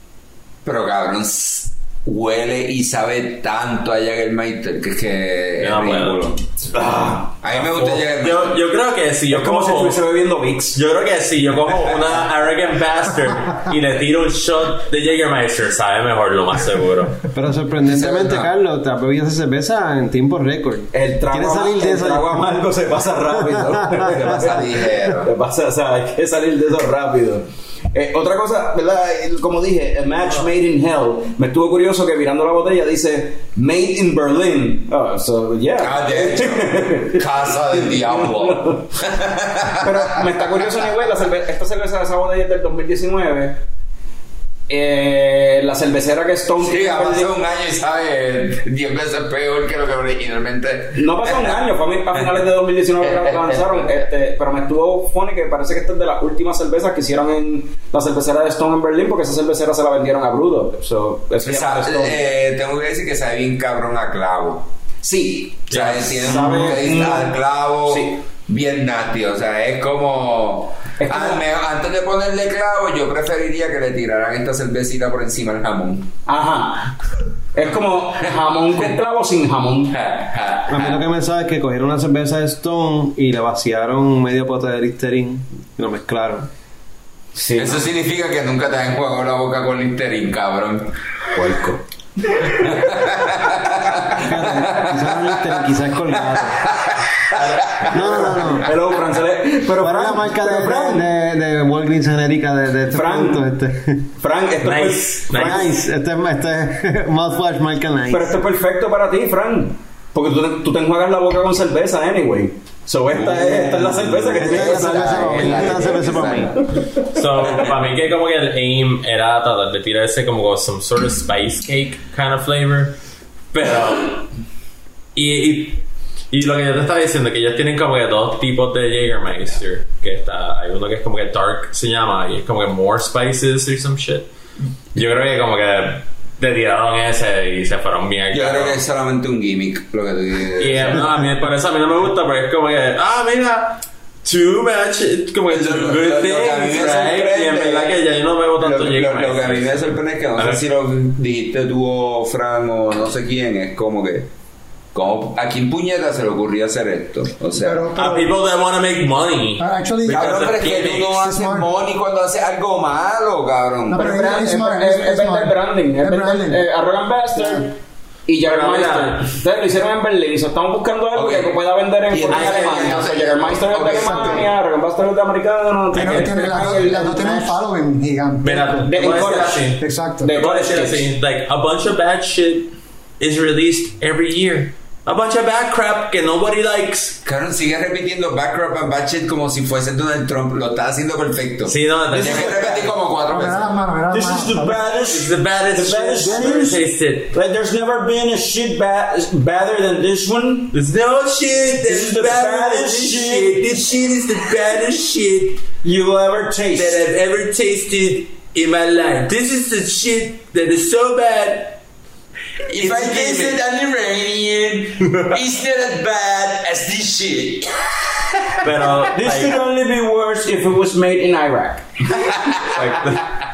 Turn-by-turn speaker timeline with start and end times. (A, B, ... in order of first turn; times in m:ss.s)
0:00.6-0:06.4 A
0:05.6-0:10.0 B
0:06.7-0:07.3 C
0:07.4-0:08.6 A
0:09.3-0:10.8 C
0:10.8-0:17.3 B
0:17.3-0:22.4 D
0:17.9-0:18.5 A
0:20.9-0:39.1 C
0:23.5-0:24.0 D
0:24.0-0:25.3 A
0:35.8-0:40.5 A
0:39.7-0:43.6 C
0:44.7-0:47.3 C
0:46.6-0:52.4 A
0:51.0-1:02.2 C
0:53.0-0:53.9 A
1:01.4-1:04.7 A
1:05.0-1:08.2 C
1:05.7-1:16.1 A
1:05.7-1:06.7 B
1:11.0-1:11.4 C
1:16.3-1:17.0 C
1:17.5-1:20.0 C
1:19.9-1:21.0 A
1:20.7-1:26.5 D
1:27.4-1:27.8 C
1:27.6-1:31.5 A
1:31.3-1:31.8 C
1:32.4-1:38.6 A
1:34.1-1:36.6 D
1:37.4-1:37.8 B
1:37.9-1:38.7 D
1:38.6-1:41.0 C
1:39.8-1:44.1 D
1:42.9-1:43.5 C
1:44.2-1:45.6 C
1:44.6-1:45.7 B
1:45.3-1:48.3 D
1:48.1-1:55.9 C
1:53.5-1:56.6 D
1:54.1-1:56.9 A
1:57.0-2:03.0 B
2:03.5-2:04.3 B
2:05.2-2:14.3 B
2:15.0-2:18.8 B
2:18.3-2:21.2 A
2:20.6-2:30.6 B
2:25.5-2:28.0 A
2:28.6-2:34.3 A
2:34.9-2:37.9 A
2:37.6-2:38.3 E
2:38.0-2:41.1 B
2:39.6-2:40.3 E
2:40.1-2:44.3 A
2:41.1-2:41.7 E
2:43.9-2:46.7 E
2:43.9-2:57.6 C
2:47.4-2:47.6 E
2:48.5-2:49.3 B
2:51.1-2:51.6 A
2:52.1-2:54.5 A
2:53.9-2:54.5 E
2:55.9-2:59.0 E
2:58.4-3:07.2 B
2:58.8-3:01.1 C
2:59.8-3:00.3 E
3:07.2-3:13.7 A
3:11.7-3:12.8 B
3:12.2-3:12.5 C
3:13.3-3:14.8 E
3:14.1-3:20.8 C
3:14.9-3:17.3 B
3:20.7-3:25.6 B
3:21.8-3:23.6 C
3:23.4-3:24.5 A
3:25.8-3:27.0 C
3:26.8-3:31.8 B
3:28.5-3:29.2 A
3:32.7-3:38.4 A
3:32.8-3:33.6 B
3:38.6-3:39.6 B
3:39.1-3:42.4 C
3:42.2-3:43.2 A
3:42.7-3:43.2 B